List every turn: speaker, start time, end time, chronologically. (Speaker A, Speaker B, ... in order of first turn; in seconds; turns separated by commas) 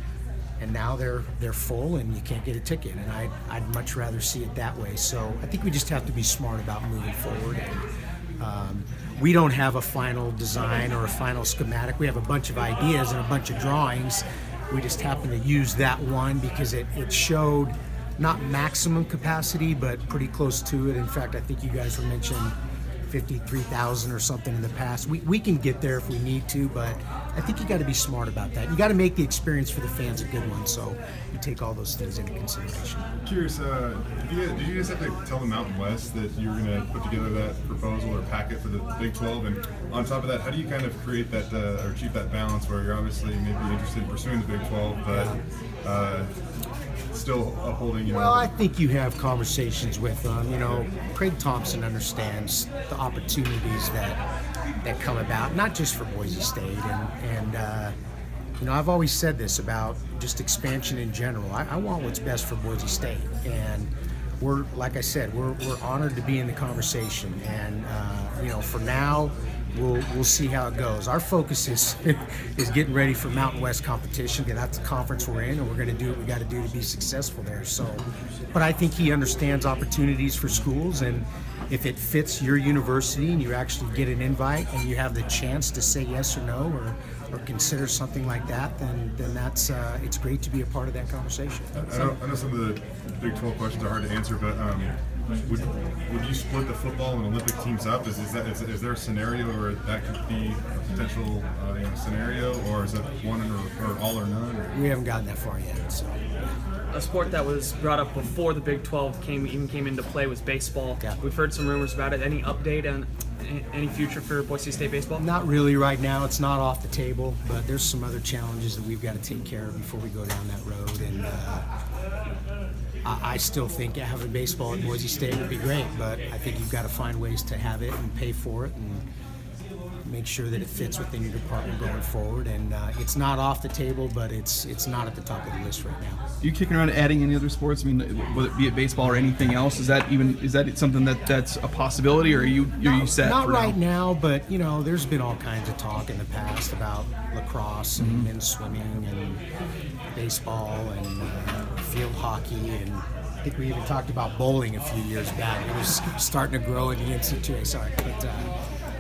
Speaker A: 0.6-7.9, Speaker A: 8.4-22.6, Speaker A: 23.1-33.1, Speaker B: 33.2-46.3, Speaker A: 45.1-45.4, Speaker B: 47.1-48.5, Speaker A: 48.1-54.2, Speaker A: 54.8-58.0, Speaker A: 58.6-92.2, Speaker B: 91.8-94.9, Speaker B: 95.5-104.7, Speaker A: 104.7-106.2, Speaker C: 106.9-115.2, Speaker A: 115.2-121.7, Speaker A: 123.0-129.0, Speaker A: 130.1-136.2, Speaker D: 136.4-143.8, Speaker A: 142.8-149.4, Speaker D: 148.0-148.3, Speaker A: 150.2-158.5